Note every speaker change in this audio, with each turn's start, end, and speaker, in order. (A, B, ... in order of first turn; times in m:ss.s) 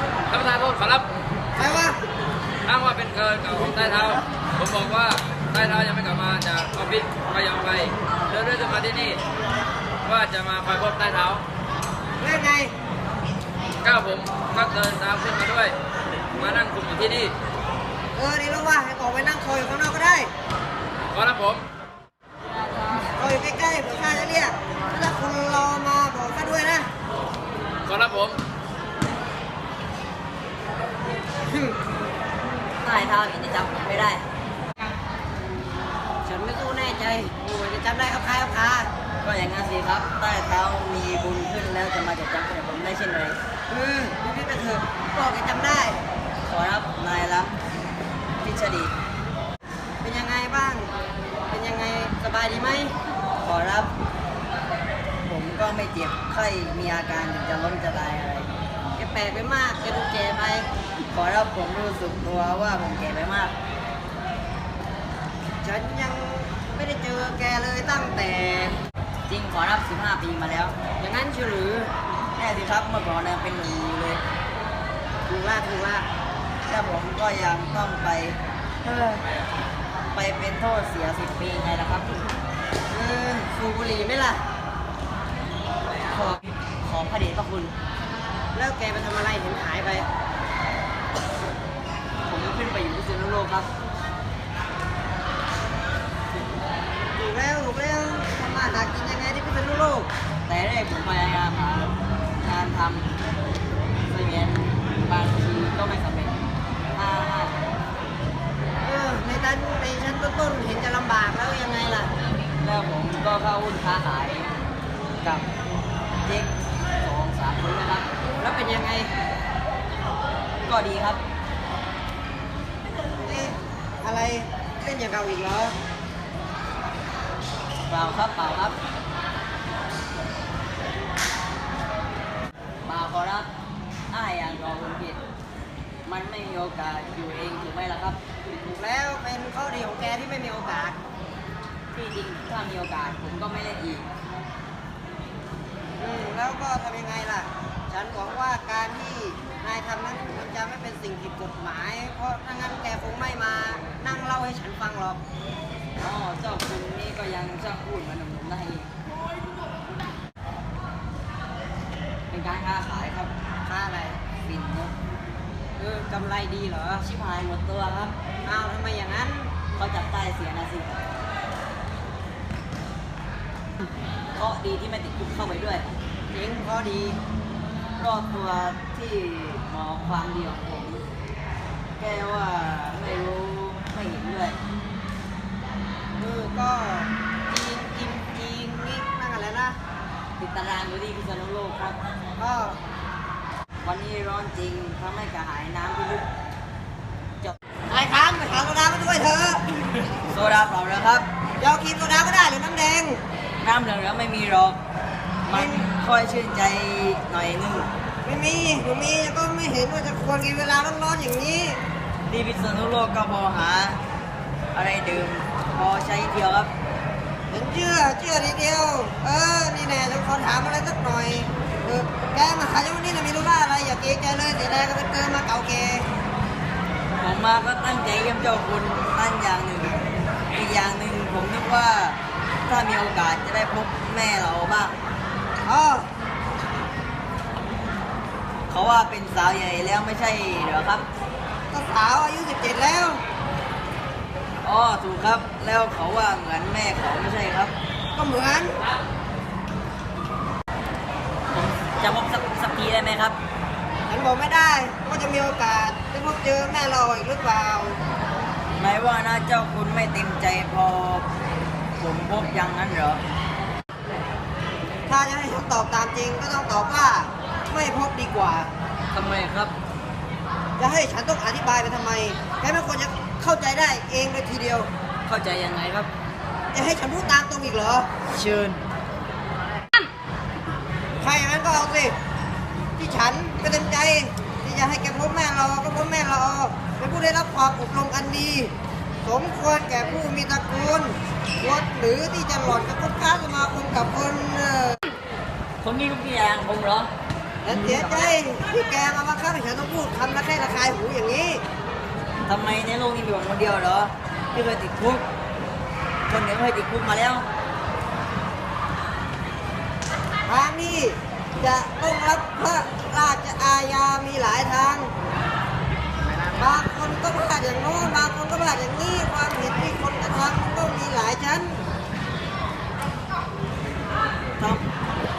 0:00.3-0:01.1 A
0:01.6-0:02.0 B
0:02.6-0:09.2 A
0:10.0-0:11.4 A
0:12.2-0:12.7 B
0:13.8-0:15.8 A
0:16.3-0:17.3 A
0:18.1-0:20.3 B
0:21.1-0:21.6 A
0:23.2-0:26.9 B
0:27.9-0:28.4 A
0:31.5-0:31.7 B
0:32.8-0:34.2 C
0:36.2-0:38.9 B
0:39.2-0:43.4 C
0:43.7-0:46.0 B
0:46.4-0:47.6 C
0:48.4-0:48.9 C
0:50.0-0:50.9 B
0:51.5-0:53.0 B
0:53.4-0:53.9 C
0:55.2-0:58.5 C
0:59.0-1:00.7 B
1:01.1-1:03.5 C
1:05.6-1:08.8 B
1:09.3-1:10.8 C
1:11.0-1:11.9 B
1:12.4-1:14.2 C
1:15.3-1:16.1 B
1:16.7-1:18.4 C
1:18.8-1:19.2 B
1:20.1-1:22.1 C
1:22.9-1:24.4 B
1:26.1-1:27.7 C
1:28.5-1:30.1 B
1:32.2-1:33.7 C
1:37.2-1:40.1 B
1:40.5-1:43.1 C
1:44.1-1:46.4 C
1:46.9-1:47.6 C
1:48.8-1:52.1 B
1:52.6-1:54.5 C
1:56.2-1:58.1 C
1:58.4-1:59.1 B
2:00.7-2:01.2 C
2:03.2-2:05.8 B
2:07.9-2:08.8 C
2:12.8-2:13.5 C
2:14.1-2:15.2 C
2:16.0-2:18.2 C
2:18.7-2:21.0 B
2:21.9-2:24.1 C
2:26.0-2:35.2 B
2:36.0-2:38.9 C
2:42.3-2:43.3 C
2:43.6-2:44.2 B
2:44.4-2:44.9 C
2:45.8-2:47.0 B
2:47.0-2:48.1 C
2:48.4-2:49.5 B
2:49.8-2:50.9 C
2:54.3-2:55.9 C
2:56.3-2:57.2 B
2:58.0-3:01.0 C
3:02.0-3:04.6 C
3:06.2-3:09.8 B
3:10.4-3:12.0 C
3:12.4-3:12.8 B
3:13.8-3:16.2 C
3:17.9-3:19.8 B
3:20.2-3:21.2 C
3:21.6-3:23.2 B
3:23.6-3:24.8 C
3:25.4-3:27.9 C
3:25.5-3:25.8 B
3:28.2-3:31.8 B
3:32.3-3:34.0 C
3:34.8-3:36.7 C
3:37.5-3:46.1 B
3:47.2-3:50.0 C
3:50.5-3:54.9 C
3:55.6-3:56.1 B
3:58.7-4:01.0 C
4:01.7-4:03.2 B
4:04.6-4:07.7 C
4:08.2-4:08.8 B
4:11.5-4:13.4 C
4:14.1-4:18.0 B
4:18.8-4:21.2 C
4:22.0-4:23.2 C
4:25.1-4:28.7 B
4:29.1-4:29.7 C
4:30.8-4:34.9 B
4:35.2-4:36.1 C
4:36.7-4:38.1 B
4:38.3-4:38.8 C
4:41.2-4:42.2 B
4:43.0-4:55.0 B
4:55.8-4:57.1 C
4:57.6-5:01.6 B
5:02.5-5:05.2 C
5:06.3-5:07.5 C
5:10.5-5:15.1 B
5:16.6-5:21.8 B